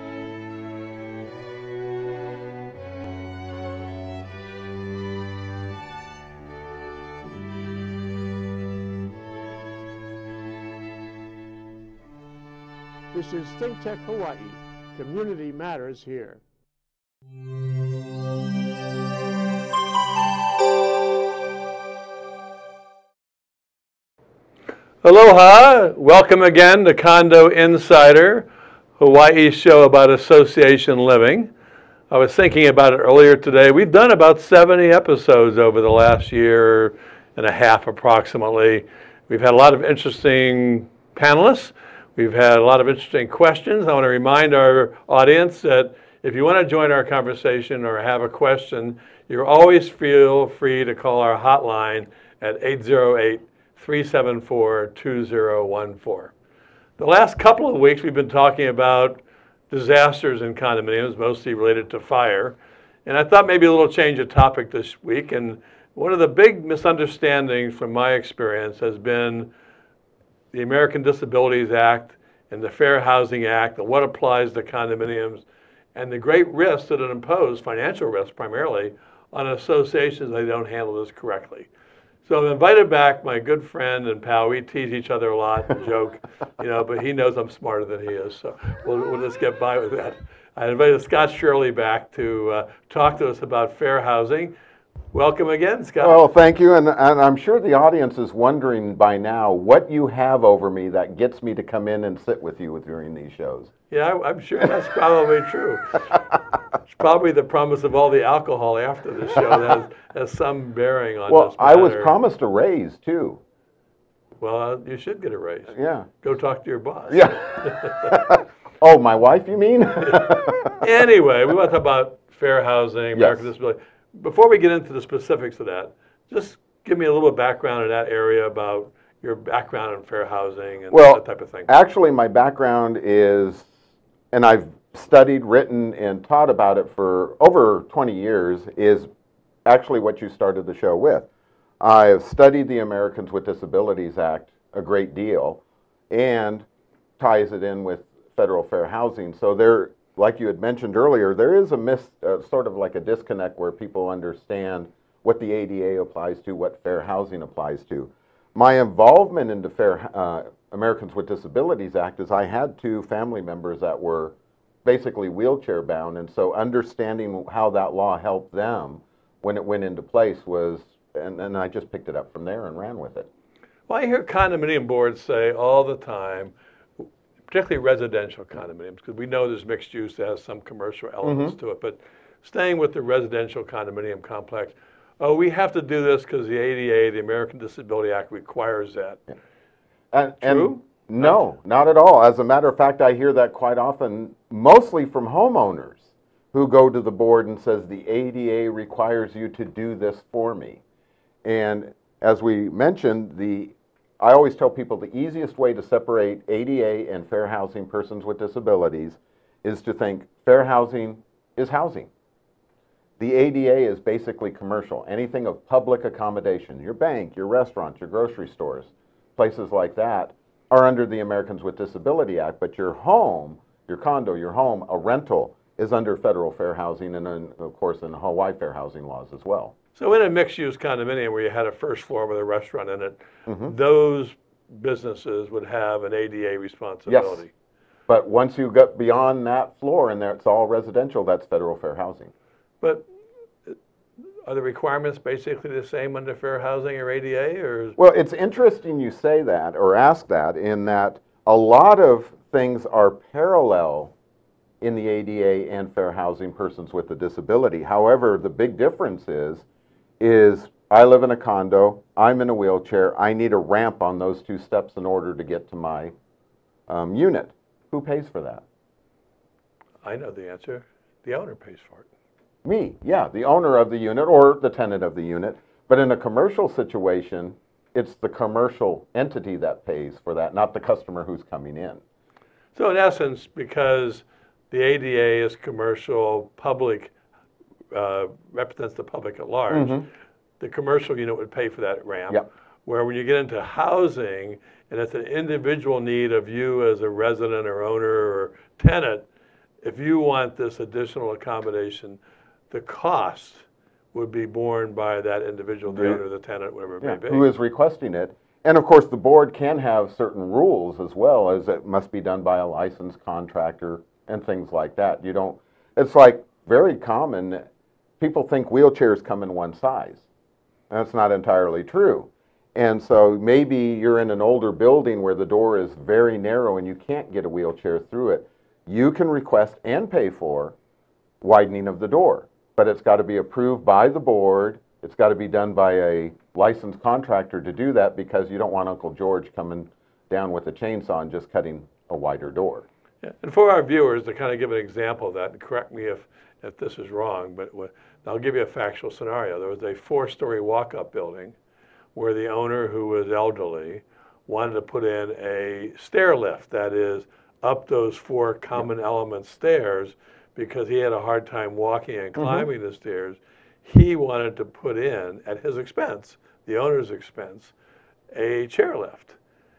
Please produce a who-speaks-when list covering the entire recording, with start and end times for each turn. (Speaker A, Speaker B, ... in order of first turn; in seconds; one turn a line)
Speaker A: 0.2-1.9
Speaker A: 13.1-16.4
Speaker B: 25.0-28.5
Speaker B: 29.0-31.5
Speaker B: 32.1-56.3
Speaker B: 57.0-69.5
Speaker B: 70.5-75.4
Speaker B: 75.9-81.7
Speaker B: 82.2-94.5
Speaker B: 95.1-96.2
Speaker C: 96.0-103.7
Speaker B: 103.9-106.2
Speaker B: 106.9-112.1
Speaker C: 111.3-113.4
Speaker B: 114.4-118.2
Speaker C: 115.7-116.1
Speaker C: 117.1-120.8
Speaker B: 120.0-131.7
Speaker C: 123.2-123.5
Speaker C: 130.9-133.7
Speaker C: 134.3-139.1
Speaker C: 139.7-141.3
Speaker C: 141.8-146.7
Speaker C: 147.2-173.3
Speaker B: 173.9-189.2
Speaker C: 181.2-181.5
Speaker C: 190.1-200.8
Speaker B: 190.4-191.4
Speaker C: 201.4-212.1
Speaker C: 213.2-229.7
Speaker B: 229.9-237.5
Speaker C: 233.5-233.7
Speaker C: 237.1-237.4
Speaker C: 238.1-242.3
Speaker B: 242.8-243.1
Speaker B: 244.4-247.9
Speaker C: 248.0-254.1
Speaker C: 254.8-259.6
Speaker C: 260.2-266.1
Speaker C: 266.9-268.6
Speaker B: 270.0-272.1
Speaker C: 272.6-282.0
Speaker B: 282.7-287.1
Speaker B: 287.9-290.0
Speaker C: 289.7-290.1
Speaker B: 290.6-299.2
Speaker B: 299.8-302.2
Speaker B: 302.7-307.5
Speaker C: 305.9-306.2
Speaker C: 307.0-317.6
Speaker C: 318.2-320.2
Speaker C: 320.9-330.8
Speaker C: 331.4-342.9
Speaker B: 343.2-351.5
Speaker B: 352.1-367.7
Speaker C: 362.4-362.7
Speaker B: 368.3-369.4